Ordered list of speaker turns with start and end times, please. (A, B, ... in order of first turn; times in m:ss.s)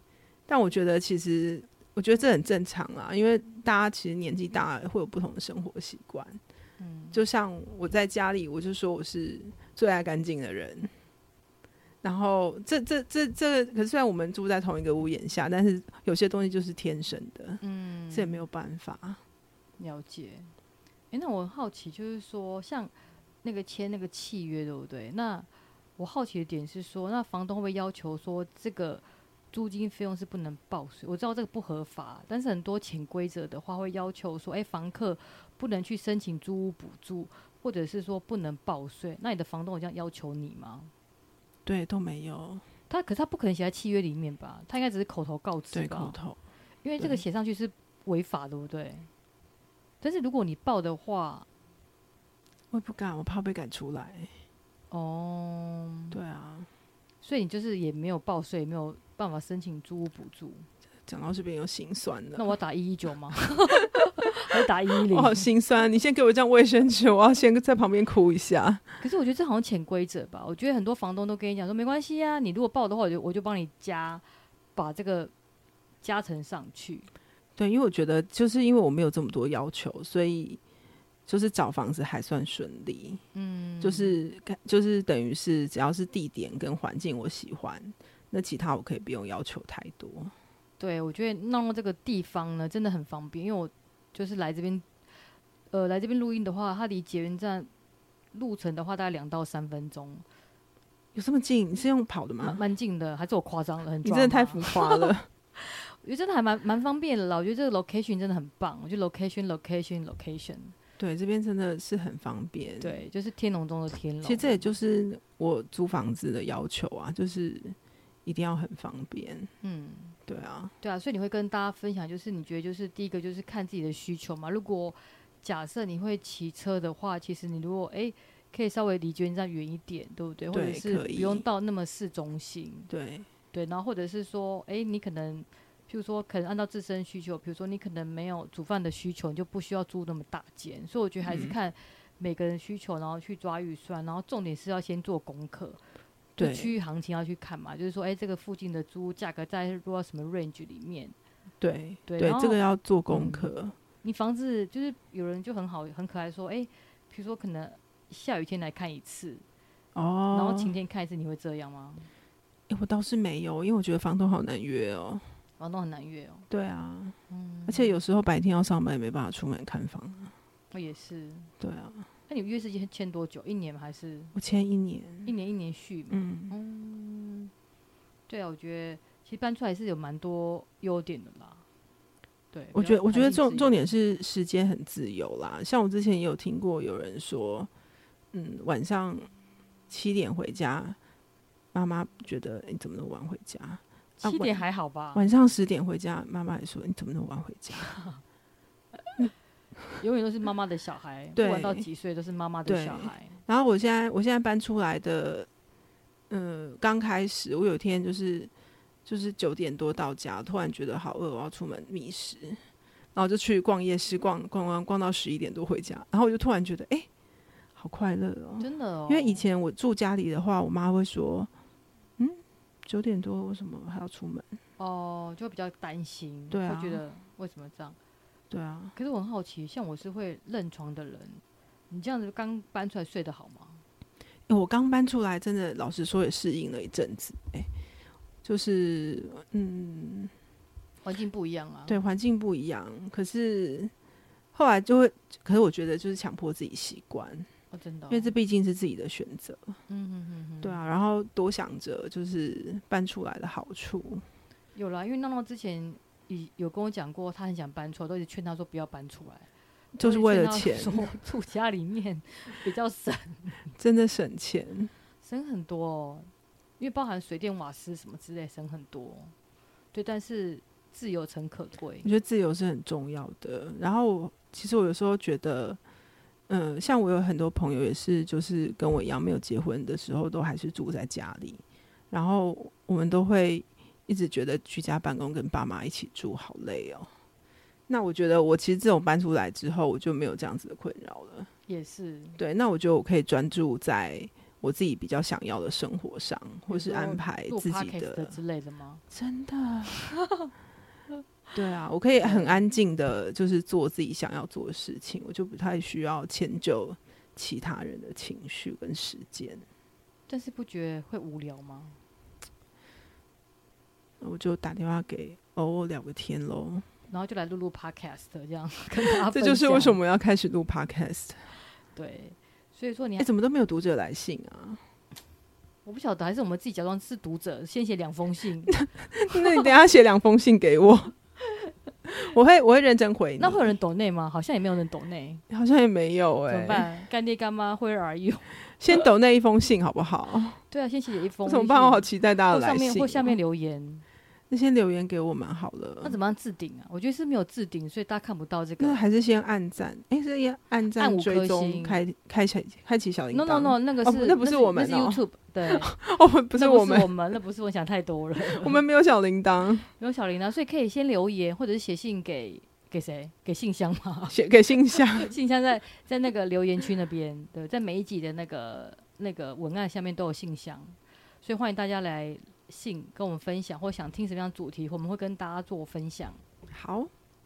0:00.5-0:06.4 A
0:06.8-0:07.2 B
0:07.1-0:10.9 A
0:12.0-0:19.2 A
0:17.6-0:18.4 B
0:19.8-0:20.5 B
0:21.1-0:40.9 B
0:41.6-0:42.6 A
0:42.9-0:46.1 B
0:45.7-0:46.4 A
0:46.8-0:49.1 B
0:47.0-0:47.2 A
0:50.0-0:51.4 B
0:52.7-0:54.3 A
0:54.9-0:56.2 B
0:56.1-0:56.7 A
0:57.2-1:00.7 B
1:01.1-1:02.5 A
1:02.4-1:05.5 B
1:05.1-1:08.9 A
1:09.0-1:14.2 B
1:14.8-1:15.3 B
1:16.0-1:17.1 B
1:17.6-1:20.6 A
1:21.3-1:23.2 A
1:23.3-1:24.2 B
1:23.8-1:30.3 A
1:30.8-1:34.9 B
1:35.7-1:37.7 B
1:38.3-1:40.2 B
1:41.1-1:42.6 A
1:42.4-1:50.8 B
1:44.0-1:45.3 A
1:51.0-1:53.0 A
1:52.8-1:54.6 B
1:54.2-1:59.5 A
1:59.6-2:00.2 B
2:00.2-2:00.7 A
2:00.8-2:12.9 B
2:10.5-2:11.4 A
2:12.9-2:13.3 A
2:13.5-2:25.8 B
2:21.2-2:21.6 A
2:26.4-2:26.7 A
2:26.4-2:31.1 B
2:31.6-2:33.8 A
2:32.1-2:33.5 B
2:34.0-2:39.4 B
2:39.9-2:40.8 A
2:40.3-2:42.1 B
2:42.7-2:45.2 A
2:45.6-2:46.5 B
2:46.5-2:47.1 A
2:47.3-2:47.9 B
2:47.7-2:50.3 A
2:50.7-2:51.5 B
2:51.6-2:52.0 A
2:52.3-2:54.3 B
2:54.4-2:55.3 A
2:55.2-2:57.5 B
2:56.1-2:56.5 A
2:58.3-3:01.6 B
3:02.5-3:03.8 B
3:02.7-3:07.7 A
3:08.3-3:09.3 A
3:09.9-3:11.0 A
3:11.7-3:14.6 A
3:14.2-3:15.2 B
3:15.1-3:17.9 A
3:17.8-3:18.1 B
3:20.0-3:23.4 B
3:21.4-3:21.9 A
3:22.6-3:25.5 A
3:26.3-3:28.5 A
3:29.0-3:32.6 A
3:33.1-3:37.1 A
3:37.8-3:41.5 A
3:38.6-3:39.4 B
3:42.2-3:44.5 A
3:44.8-3:48.0 B
3:46.5-3:47.0 A
3:48.5-3:48.9 A
3:49.0-3:53.8 B
3:54.5-3:57.7 A
3:58.4-4:00.3 A
4:01.0-4:02.0 B
4:01.9-4:03.9 A
4:04.5-4:07.5 A
4:07.7-4:08.3 B
4:08.1-4:09.7 A
4:09.9-4:10.8 B
4:10.6-4:14.2 A
4:14.8-4:19.5 B
4:19.9-4:21.1 A
4:20.0-4:23.6 B
4:23.8-4:24.9 A
4:25.2-4:29.3 B
4:29.9-4:32.1 B
4:32.0-4:35.8 A
4:36.5-4:47.1 A
4:47.9-4:51.5 A
4:51.7-4:52.4 B
4:52.4-4:58.4 A
4:56.7-4:59.0 B
4:59.1-5:00.0 A
4:59.9-5:00.5 B
5:01.5-5:09.6 A
5:02.2-5:02.6 B
5:10.3-5:12.0 B
5:14.2-5:16.9 A
5:17.1-5:20.0 B
5:19.0-5:21.5 A
5:21.9-5:23.3 B
5:23.2-5:24.8 A
5:25.8-5:28.8 B
5:28.7-5:31.1 A
5:32.0-5:33.7 A
5:33.4-5:35.4 B
5:35.5-5:36.9 A
5:36.5-5:39.0 B
5:38.7-5:40.6 A
5:40.7-5:44.0 B
5:41.4-5:43.4 A
5:44.5-5:46.2 A
5:46.0-5:49.0 B
5:48.8-5:57.1 A
5:51.0-5:52.0 B
5:53.3-5:55.9 B
5:56.5-5:58.8 B
5:58.4-5:59.9 A
6:00.0-6:04.4 B
6:04.3-6:05.3 A
6:04.9-6:16.4 B
6:16.7-6:17.1 A